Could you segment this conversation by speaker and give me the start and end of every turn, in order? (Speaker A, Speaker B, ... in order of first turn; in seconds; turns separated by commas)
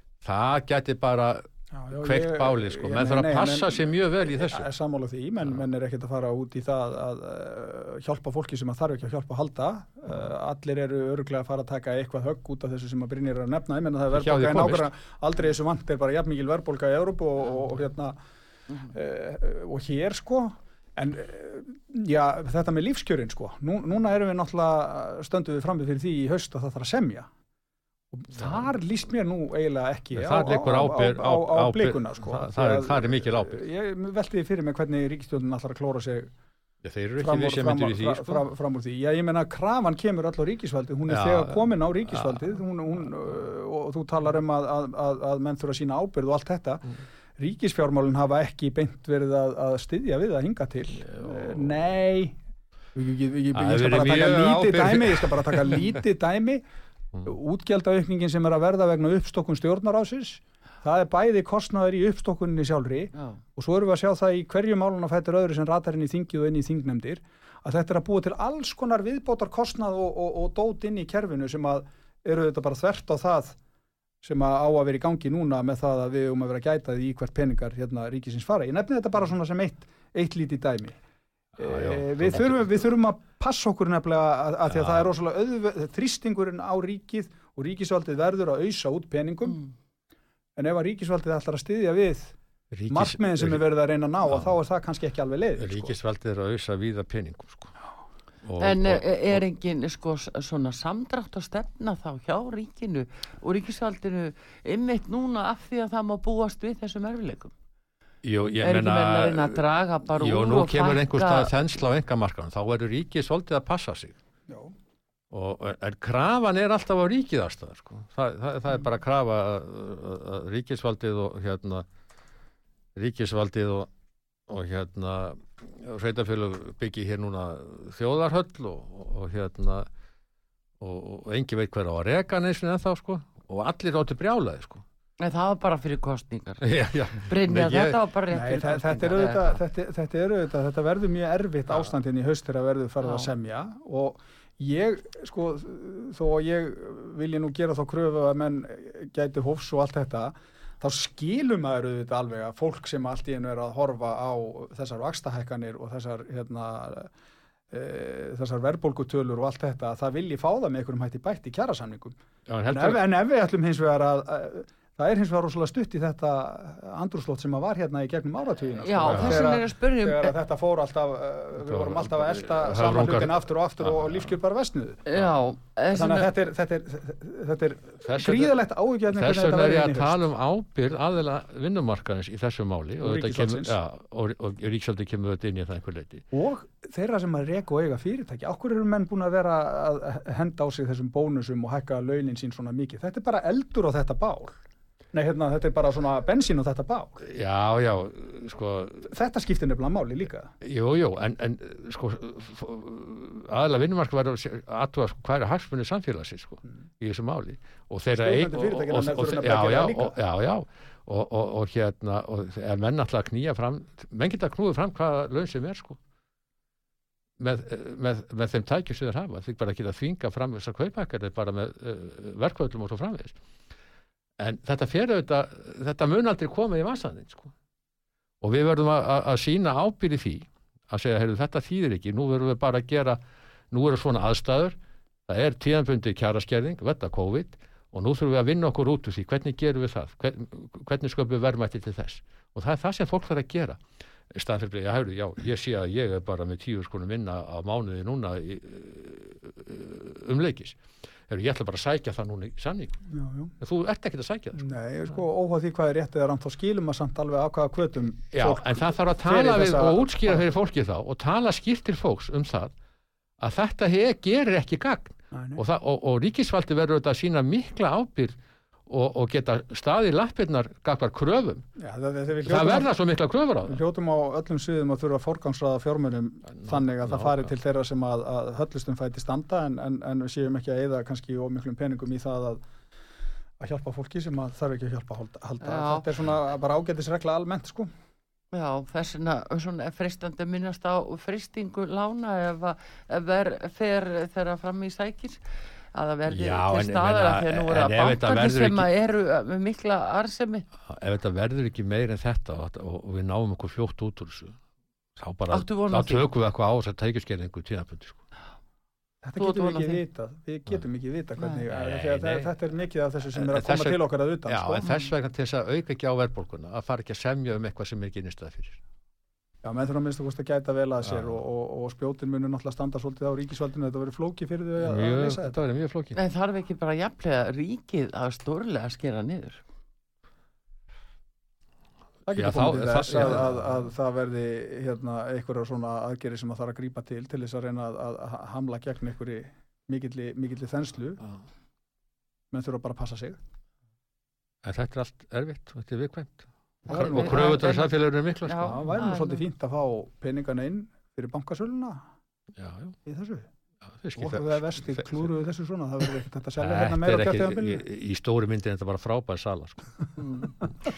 Speaker A: 0.2-1.5, Speaker B: 1.7-18.2, Speaker A: 2.0-4.7, Speaker A: 14.1-14.9, Speaker B: 18.9-27.3, Speaker B: 28.1-36.3, Speaker A: 30.1-33.6, Speaker A: 36.8-38.5, Speaker B: 37.2-52.4, Speaker A: 41.1-41.6, Speaker A: 51.1-51.6, Speaker B: 52.9-56.6, Speaker A: 53.5-55.8, Speaker B: 57.2-73.6, Speaker B: 74.2-81.0, Speaker B: 81.6-89.6, Speaker A: 81.6-82.8, Speaker A: 84.7-85.0, Speaker B: 90.5-92.3, Speaker A: 92.7-93.6, Speaker B: 92.9-95.9, Speaker A: 94.2-94.5, Speaker A: 95.6-97.7, Speaker A: 98.4-99.4, Speaker C: 98.6-107.5, Speaker A: 108.2-114.2, Speaker C: 108.6-111.5, Speaker B: 114.5-114.7, Speaker A: 115.3-121.9, Speaker A: 122.9-123.9, Speaker A: 124.5-129.9, Speaker A: 130.8-134.8, Speaker C: 135.2-139.5, Speaker A: 136.6-138.0, Speaker B: 138.3-157.1, Speaker C: 143.0-143.3, Speaker B: 157.7-162.1, Speaker A: 162.5-163.0, Speaker B: 162.7-175.0, Speaker C: 168.8-170.3, Speaker A: 169.1-169.5, Speaker A: 171.6-174.3, Speaker C: 175.1-176.3, Speaker B: 175.9-180.2, Speaker A: 178.0-178.5, Speaker A: 179.1-186.2, Speaker B: 183.0-183.8, Speaker B: 186.3-194.6, Speaker B: 195.1-197.2, Speaker A: 197.2-199.1, Speaker B: 199.1-200.5, Speaker A: 200.6-216.0, Speaker B: 208.2-210.1, Speaker A: 217.4-223.4, Speaker A: 224.4-227.5, Speaker A: 228.4-233.2, Speaker A: 233.7-253.0, Speaker B: 253.1-253.5, Speaker A: 253.6-254.7, Speaker B: 254.6-260.4, Speaker A: 258.3-262.7, Speaker A: 263.4-268.4, Speaker B: 265.3-265.6, Speaker A: 268.9-271.6, Speaker B: 271.8-272.9, Speaker A: 272.4-273.8, Speaker B: 273.7-282.6, Speaker A: 276.6-277.5, Speaker B: 283.6-287.9, Speaker C: 285.6-286.1, Speaker C: 288.5-295.4, Speaker C: 295.9-300.6, Speaker A: 296.3-298.9, Speaker A: 300.9-304.6, Speaker A: 305.1-308.2, Speaker C: 305.5-306.2, Speaker B: 309.2-314.8, Speaker C: 309.4-310.0, Speaker A: 311.7-312.5, Speaker A: 313.3-318.8, Speaker C: 314.8-315.1, Speaker B: 319.6-325.6, Speaker A: 321.0-321.4, Speaker A: 324.8-326.1, Speaker C: 326.1-329.6, Speaker B: 332.2-341.2, Speaker A: 332.4-333.8, Speaker B: 342.5-343.4, Speaker A: 344.6-348.8, Speaker B: 346.9-347.7, Speaker C: 346.9-347.9, Speaker C: 348.4-349.4, Speaker B: 348.6-352.0, Speaker A: 352.5-352.9, Speaker B: 353.1-353.5, Speaker A: 353.9-355.2, Speaker B: 354.1-357.8, Speaker A: 356.6-359.9, Speaker C: 360.2-360.6